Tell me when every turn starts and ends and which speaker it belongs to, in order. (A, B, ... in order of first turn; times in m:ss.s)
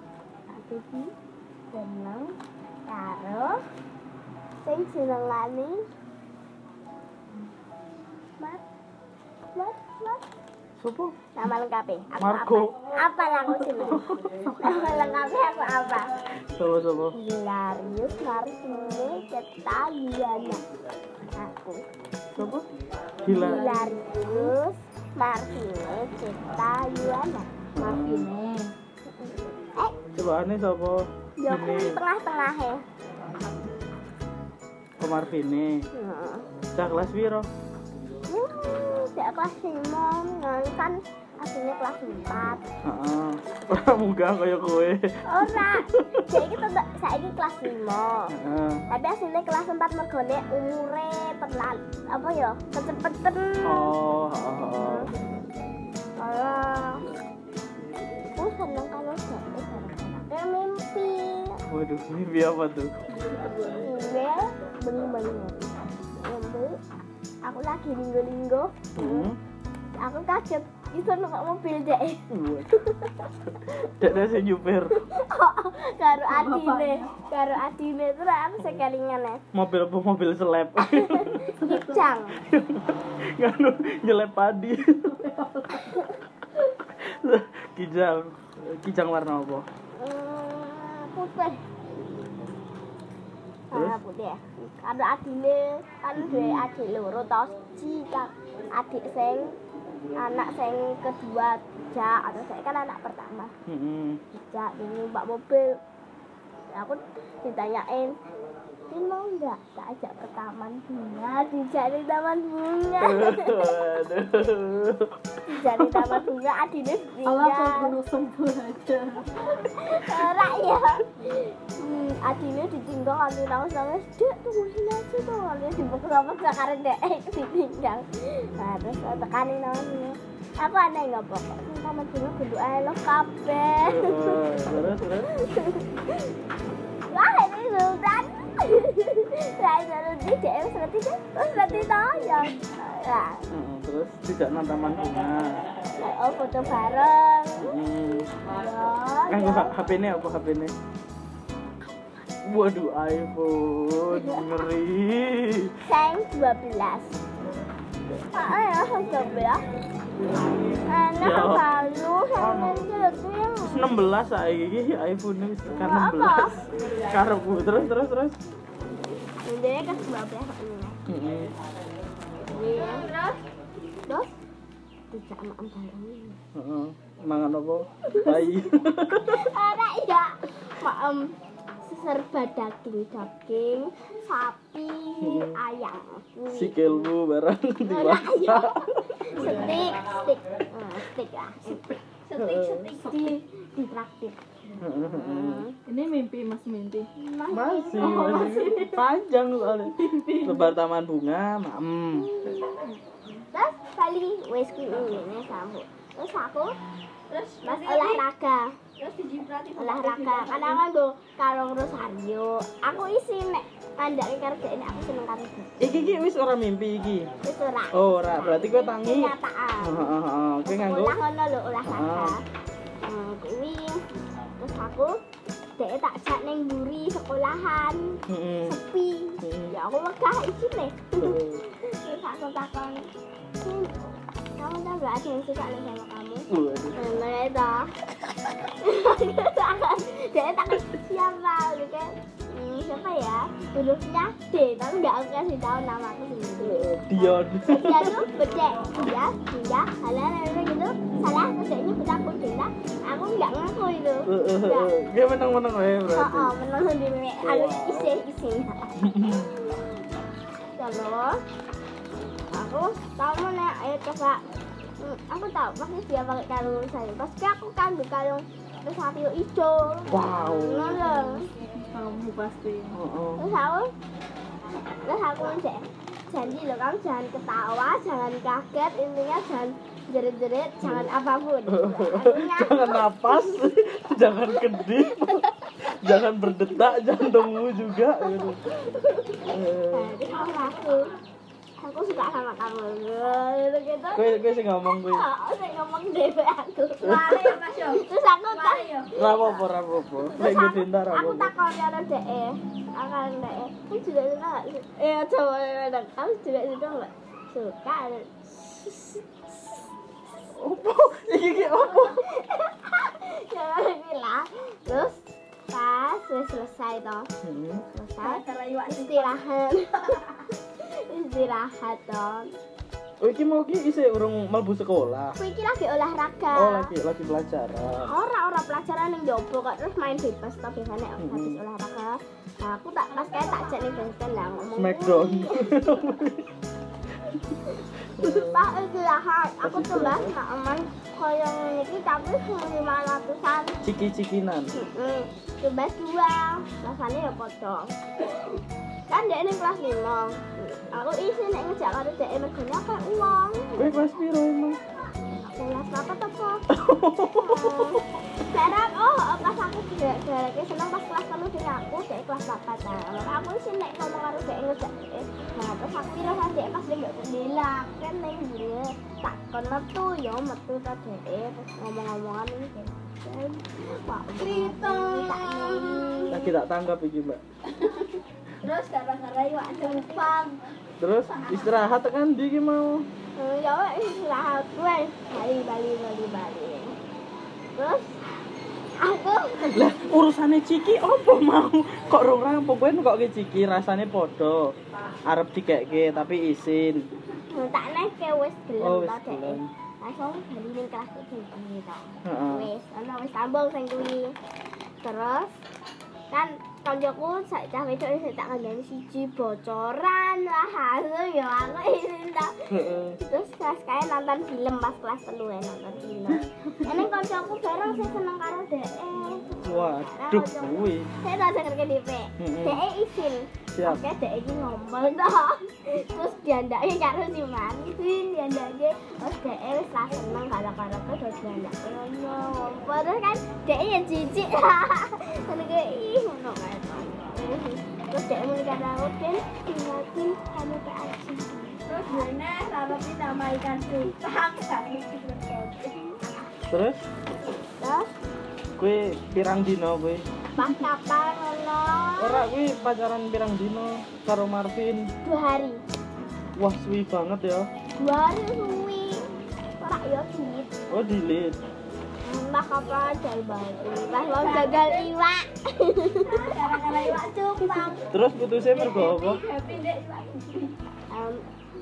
0:00.5-0:01.1 A
0:01.7-0:02.3 A
0:02.9-0:03.6 A
0:04.6-0:05.8 A
0:09.5-0:10.2 A
0:10.8-0:11.2 B
0:11.3-0:16.1 A
0:12.2-0:12.8 B
0:13.9-0:14.7 B
0:16.5-0:17.2 B
0:17.1-0:20.6 A
0:21.3-0:21.8 A
0:22.3-0:22.7 B
0:23.2-0:23.6 B
0:23.2-0:27.6 A
0:23.3-0:24.5 C
0:27.8-0:28.3 B
0:27.8-0:28.7 C
0:29.0-0:30.0 A
0:30.1-0:32.0 B
0:31.4-0:32.8 A
0:35.0-0:35.9 B
0:35.9-0:36.4 A
0:36.7-0:37.5 B
0:38.3-0:42.7 A
0:42.8-0:46.4 B
0:45.2-0:48.3 A
0:48.3-0:48.8 B
0:48.9-0:53.9 A
0:53.6-0:55.1 B
0:54.8-0:55.1 A
0:56.2-0:57.0 A
0:58.3-1:01.6 A
1:01.7-1:02.9 B
1:03.1-1:03.8 C
1:03.7-1:06.8 A
1:07.4-1:09.3 A
1:08.9-1:09.4 B
1:09.9-1:13.3 A
1:12.3-1:12.8 B
1:13.6-1:15.0 B
1:14.9-1:19.4 A
1:16.2-1:17.1 C
1:19.5-1:21.4 B
1:20.8-1:22.4 A
1:21.5-1:22.1 C
1:22.4-1:25.1 B
1:25.0-1:26.1 C
1:26.9-1:29.7 B
1:30.0-1:31.6 A
1:33.7-1:39.5 A
1:33.7-1:34.0 B
1:36.2-1:36.7 B
1:40.1-1:43.5 A
1:43.7-1:44.2 B
1:44.3-1:45.8 A
1:46.7-1:48.2 A
1:48.9-1:53.8 A
1:53.0-1:56.2 B
1:55.4-1:57.9 A
1:57.2-1:59.6 C
1:59.4-2:16.3 A
2:13.8-2:15.3 B
2:17.1-2:23.4 A
2:21.5-2:22.4 B
2:23.5-2:25.6 B
2:26.0-2:29.7 A
2:27.6-2:28.3 B
2:29.3-2:30.7 B
2:32.4-2:35.8 B
2:34.1-2:34.6 A
2:35.8-2:37.2 A
2:38.3-2:39.6 A
2:40.8-2:44.0 A
2:41.2-2:41.7 B
2:42.4-2:42.9 B
2:43.6-2:48.4 B
2:45.7-2:46.6 A
2:49.4-2:51.0 A
2:51.1-2:51.5 B
2:52.4-2:53.1 A
2:52.6-2:53.4 C
2:54.0-2:54.4 A
2:55.1-2:56.4 A
2:56.5-2:59.5 B
2:58.1-2:58.4 A
2:59.2-3:07.1 A
3:05.2-3:05.6 B
3:06.5-3:09.6 B
3:07.9-3:11.8 A
3:12.1-3:13.3 C
3:12.4-3:12.9 B
3:13.0-3:15.8 A
3:14.8-3:15.6 B
3:15.9-3:17.1 C
3:17.2-3:18.6 A
3:17.5-3:22.3 B
3:18.0-3:19.1 C
3:19.9-3:20.7 C
3:22.2-3:22.8 A
3:22.6-3:23.0 C
3:23.5-3:26.7 A
3:27.3-3:28.2 C
3:27.6-3:28.8 A
3:29.0-3:30.8 C
3:29.8-3:35.9 A
3:35.8-3:37.3 B
3:37.4-3:40.0 A
3:37.9-3:41.2 B
3:40.6-3:42.4 A
3:41.8-3:42.3 B
3:43.0-3:44.0 A
3:44.6-3:45.2 A
3:45.8-3:53.1 A
3:48.3-3:48.8 B
3:49.4-3:49.7 B
3:51.2-3:51.6 B
3:53.6-3:54.0 A
3:54.6-3:57.9 A
3:56.5-3:57.0 B
3:58.7-4:14.9 A
4:06.6-4:08.3 B
4:14.3-4:16.5 B
4:16.1-4:19.9 A
4:17.4-4:18.2 B
4:19.0-4:19.5 B
4:20.8-4:21.4 A
4:22.5-4:24.4 A
4:25.0-4:31.5 A
4:30.1-4:31.2 B
4:31.7-4:33.0 C
4:32.9-4:33.4 B
4:33.4-4:33.9 A
4:35.0-4:43.6 A
4:40.8-4:41.1 B
4:41.6-4:48.6 B
4:44.5-4:45.5 A
4:48.2-4:51.1 A
4:49.5-4:50.2 B
4:51.8-4:59.5 A
4:54.1-4:55.2 B
4:57.0-4:57.5 B
4:57.0-4:59.4 C
4:59.1-5:01.5 B
5:00.4-5:09.8 A
5:10.5-5:12.2 B
5:11.5-5:17.3 A
5:17.4-5:17.8 B
5:17.9-5:20.2 A
5:18.2-5:19.4 C
5:20.8-5:22.5 A
5:23.2-5:25.4 B
5:25.3-5:26.9 A
5:26.5-5:28.1 B
5:28.1-5:36.2 A
5:31.2-5:31.6 B
5:33.2-5:33.9 C
5:34.8-5:36.5 B
5:37.6-5:43.8 A
5:38.1-5:38.7 B
5:39.6-5:40.3 B
5:43.8-5:44.7 B
5:44.7-5:47.9 A
5:49.1-5:54.0 A
5:53.8-5:54.8 B
5:55.2-5:56.7 A
5:56.7-5:58.0 B
5:57.2-6:16.5 A
6:14.4-6:16.3 C
6:16.3-6:17.4 B
6:18.6-6:20.6 C
6:19.8-6:20.4 A
6:21.0-6:23.0 B
6:21.3-6:21.7 C
6:23.4-6:27.0 A
6:27.7-6:28.2 A
6:29.0-6:29.9 A
6:29.7-6:34.7 B
6:35.3-6:37.1 B
6:37.5-6:44.3 A
6:38.8-6:39.7 B
6:42.2-6:42.7 B
6:45.0-6:45.6 A
6:46.3-7:23.0 A
6:52.7-6:53.2 B
6:59.6-7:01.1 B
7:02.4-7:02.8 B
7:03.7-7:04.0 B
7:21.9-7:25.7 C
7:25.7-7:26.2 A
7:26.7-7:27.0 B
7:27.8-7:28.1 A
7:28.8-7:30.2 B
7:30.6-7:32.4 A
7:32.2-7:35.1 B
7:35.2-7:35.8 A
7:36.6-7:37.7 B
7:38.0-7:39.2 A
7:39.8-7:40.7 A
7:40.9-7:41.6 B
7:42.2-7:48.0 A
7:44.1-7:45.1 C
7:46.2-7:48.0 C
7:48.1-7:49.4 B
7:48.8-7:49.7 A
7:48.8-7:50.7 C
7:51.1-7:51.4 A